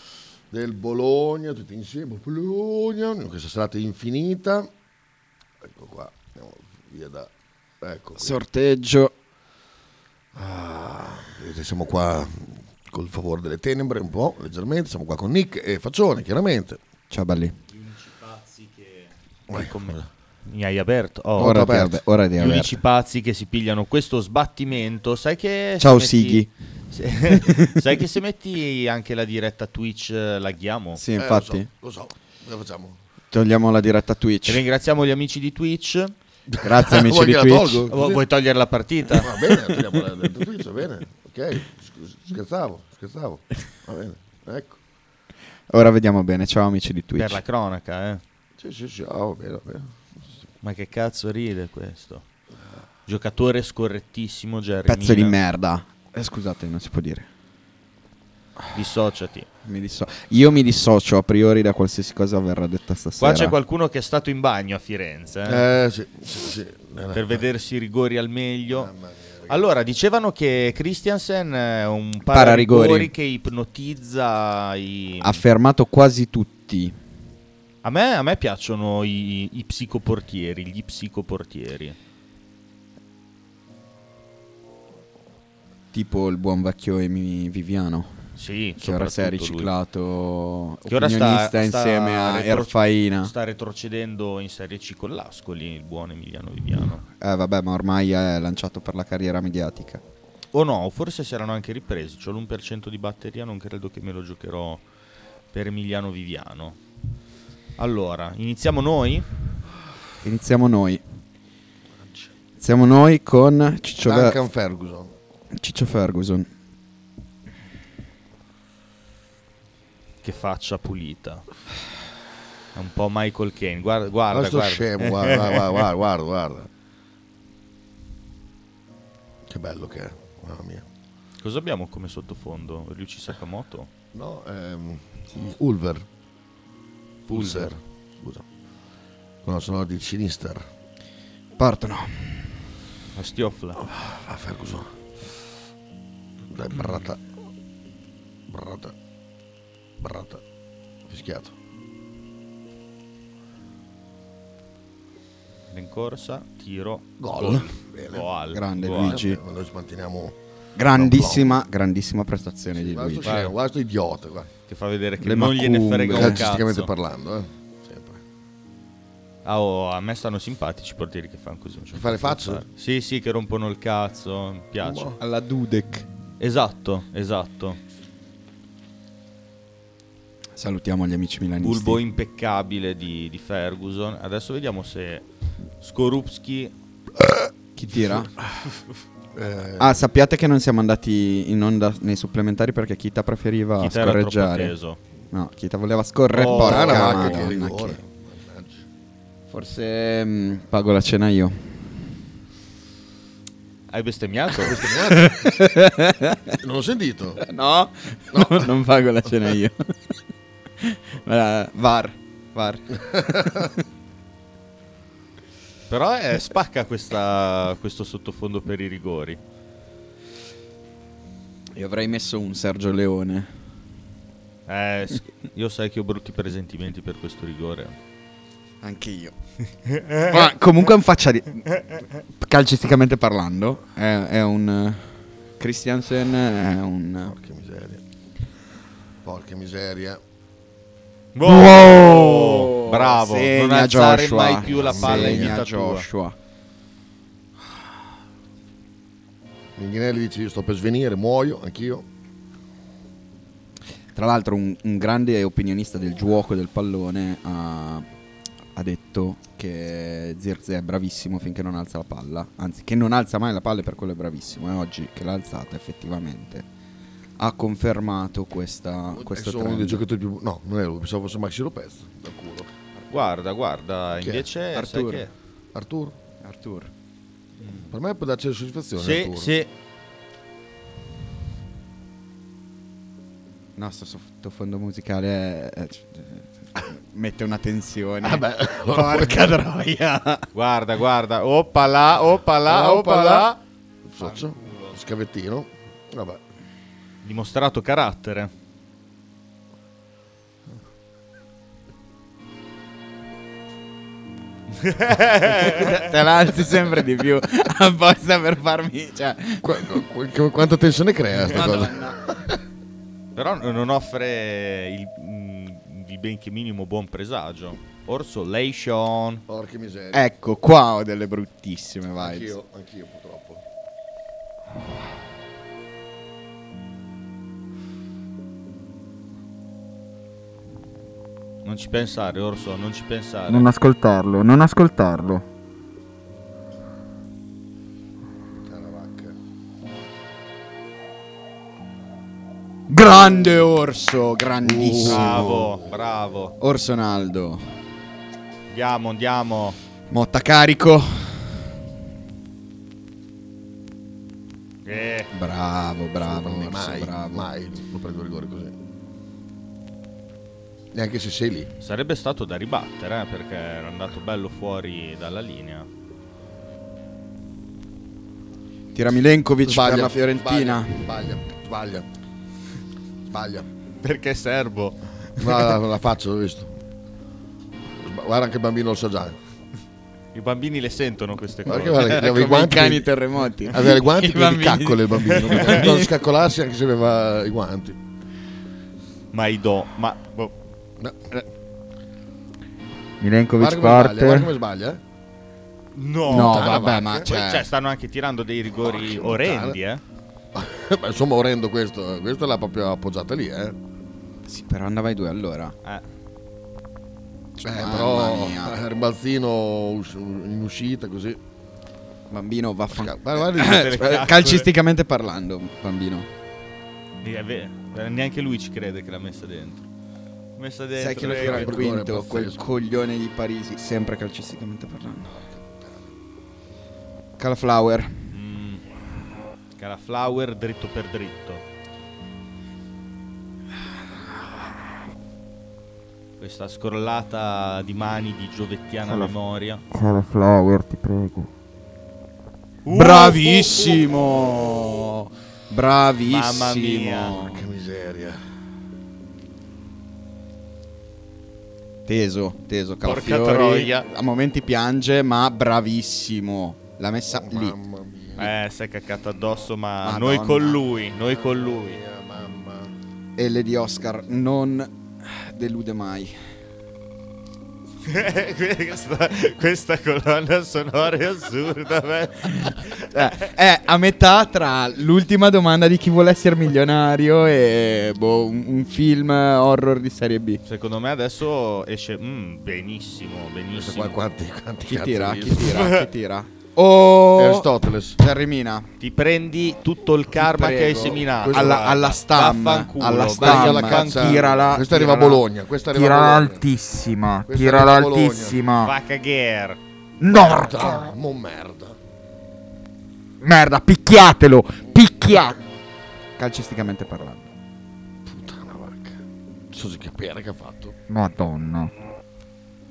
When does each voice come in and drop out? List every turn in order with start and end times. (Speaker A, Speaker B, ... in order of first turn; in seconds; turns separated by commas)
Speaker A: 0.5-4.7, Speaker A: 5.6-8.4, Speaker B: 8.2-9.1, Speaker A: 10.3-16.8, Speaker B: 17.1-17.6, Speaker C: 17.7-21.8, Speaker A: 19.5-20.1, Speaker A: 21.4-22.0, Speaker B: 21.4-22.8, Speaker C: 22.4-31.0, Speaker B: 25.8-26.5, Speaker B: 27.3-27.8, Speaker B: 31.0-31.7, Speaker A: 31.1-33.0, Speaker B: 33.3-34.6, Speaker C: 34.5-36.1, Speaker A: 36.5-38.2, Speaker B: 36.6-37.9, Speaker C: 37.9-39.3, Speaker A: 39.2-44.8, Speaker B: 45.7-47.4, Speaker C: 47.2-48.2, Speaker A: 48.6-50.4, Speaker C: 50.6-52.3, Speaker C: 53.1-55.4, Speaker B: 54.9-57.3, Speaker C: 58.7-59.5, Speaker B: 59.6-63.5, Speaker C: 63.2-65.7, Speaker A: 65.5-67.5, Speaker C: 67.1-68.9, Speaker A: 68.7-69.7, Speaker C: 69.5-75.4, Speaker B: 72.3-73.1, Speaker B: 75.2-77.0, Speaker C: 77.8-82.0, Speaker B: 85.9-88.2, Speaker C: 88.4-89.7, Speaker B: 88.8-93.3, Speaker C: 90.9-97.1, Speaker B: 97.2-100.0, Speaker C: 100.5-104.8, Speaker C: 105.5-106.8, Speaker C: 107.8-109.3, Speaker B: 110.2-111.0, Speaker A: 112.0-112.3, Speaker B: 112.6-114.4, Speaker A: 114.0-115.2, Speaker B: 115.5-116.5, Speaker C: 120.2-121.5, Speaker C: 122.7-125.8, Speaker A: 124.3-126.7, Speaker A: 129.5-130.9, Speaker C: 131.4-133.9, Speaker A: 134.1-136.1, Speaker A: 137.3-138.5, Speaker C: 137.3-137.7, Speaker A: 139.4-140.7, Speaker B: 141.6-142.6, Speaker C: 143.2-143.8, Speaker A: 143.8-145.1, Speaker A: 146.5-147.2, Speaker A: 148.5-148.9, Speaker A: 150.0-150.4, Speaker A: 151.1-151.6, Speaker C: 155.7-159.2, Speaker A: 157.2-158.3, Speaker B: 158.5-159.4, Speaker A: 159.0-160.4, Speaker B: 160.8-163.4, Speaker A: 160.9-161.6, Speaker A: 162.7-164.5, Speaker C: 163.2-163.6, Speaker C: 164.7-166.9, Speaker B: 165.2-166.4, Speaker A: 166.1-168.2, Speaker C: 169.4-175.2, Speaker A: 171.9-172.7, Speaker A: 174.8-175.2, Speaker B: 175.2-176.1, Speaker C: 176.4-177.8, Speaker B: 180.6-182.0, Speaker C: 181.6-185.3, Speaker C: 185.8-186.7, Speaker A: 187.2-187.5, Speaker B: 187.8-188.3, Speaker A: 188.4-188.7, Speaker A: 189.3-190.0, Speaker B: 189.8-194.7, Speaker C: 193.8-195.0, Speaker B: 195.3-198.0, Speaker C: 196.3-197.5, Speaker A: 196.4-198.9, Speaker B: 199.5-201.9, Speaker C: 203.9-204.8, Speaker A: 204.6-205.6, Speaker B: 204.8-206.6, Speaker A: 206.6-207.4, Speaker B: 207.4-209.8, Speaker A: 208.3-208.7, Speaker B: 210.8-213.8, Speaker A: 213.0-213.7, Speaker C: 215.9-219.4, Speaker B: 221.7-223.5, Speaker C: 224.7-228.0, Speaker B: 228.8-229.3, Speaker C: 229.9-230.4, Speaker B: 230.2-231.7, Speaker B: 232.3-237.4, Speaker A: 237.2-238.1, Speaker A: 239.2-240.2, Speaker C: 241.3-246.1, Speaker B: 241.4-246.4, Speaker A: 244.7-245.6, Speaker A: 249.8-252.1, Speaker B: 254.2-258.1, Speaker B: 258.8-266.7, Speaker B: 267.4-270.0, Speaker A: 269.1-272.7, Speaker C: 273.1-275.3, Speaker A: 274.2-274.5, Speaker B: 274.8-275.3, Speaker A: 275.7-276.2, Speaker B: 276.4-276.9, Speaker C: 277.6-277.9, Speaker A: 277.9-279.5, Speaker C: 279.0-279.7, Speaker B: 283.8-290.5, Speaker A: 288.2-289.5, Speaker C: 290.5-293.6, Speaker A: 292.7-293.5, Speaker A: 294.0-296.4, Speaker C: 294.2-295.0, Speaker C: 297.2-298.5, Speaker C: 304.8-306.0, Speaker B: 305.6-309.9, Speaker A: 309.6-312.4, Speaker B: 311.5-312.4, Speaker C: 313.4-319.4, Speaker A: 319.5-320.3, Speaker B: 320.1-322.5, Speaker A: 322.2-323.6, Speaker C: 331.6-333.7, Speaker B: 333.5-335.5, Speaker A: 338.5-339.4, Speaker B: 342.9-345.5, Speaker A: 344.6-345.9, Speaker C: 345.1-346.6, Speaker B: 346.6-347.6, Speaker C: 348.7-349.8, Speaker B: 350.1-351.7, Speaker C: 354.9-355.3, Speaker B: 355.3-357.5, Speaker A: 356.2-358.8, Speaker A: 360.9-361.7, Speaker C: 361.8-365.9, Speaker B: 368.9-371.1, Speaker A: 369.6-372.1, Speaker A: 373.3-373.7, Speaker C: 374.0-375.6, Speaker A: 375.4-376.7, Speaker A: 378.0-379.4, Speaker C: 380.3-382.1, Speaker A: 381.6-383.1, Speaker B: 381.9-386.1, Speaker A: 383.7-388.0, Speaker C: 385.3-385.9, Speaker C: 389.3-390.6, Speaker A: 391.0-391.4, Speaker B: 393.2-394.5, Speaker A: 393.6-395.0, Speaker C: 395.9-400.0, Speaker A: 396.3-397.3, Speaker B: 396.3-397.7, Speaker A: 398.7-399.8, Speaker A: 400.5-403.8, Speaker B: 404.5-405.8, Speaker B: 407.6-408.8, Speaker A: 407.6-411.4, Speaker B: 412.3-416.3, Speaker A: 412.9-414.0, Speaker C: 413.5-414.7, Speaker C: 417.2-419.8, Speaker C: 420.6-421.8, Speaker B: 420.9-425.4, Speaker A: 421.2-422.6, Speaker A: 425.4-426.1, Speaker B: 427.4-428.3, Speaker C: 428.3-428.8, Speaker C: 429.8-431.6, Speaker C: 436.4-439.8, Speaker B: 439.0-439.4, Speaker B: 439.9-441.5, Speaker C: 442.9-444.2, Speaker B: 442.9-447.6, Speaker C: 446.3-447.5, Speaker A: 447.4-448.4, Speaker B: 452.1-457.8, Speaker C: 453.0-454.1, Speaker A: 457.3-458.5, Speaker C: 458.4-462.0, Speaker B: 460.0-460.8, Speaker A: 461.2-463.0, Speaker B: 463.4-466.4, Speaker C: 468.1-473.3, Speaker B: 472.7-480.6, Speaker C: 480.6-484.2, Speaker A: 483.7-485.9, Speaker B: 484.9-488.9, Speaker C: 485.6-486.1, Speaker A: 487.4-488.2, Speaker C: 489.0-494.8, Speaker B: 490.4-498.9, Speaker A: 490.9-491.9, Speaker A: 493.4-496.7, Speaker A: 497.5-498.6, Speaker C: 498.8-499.8, Speaker B: 500.2-501.1, Speaker A: 500.3-502.0, Speaker B: 503.4-505.6, Speaker B: 506.4-507.5, Speaker A: 508.2-511.0, Speaker B: 511.1-511.9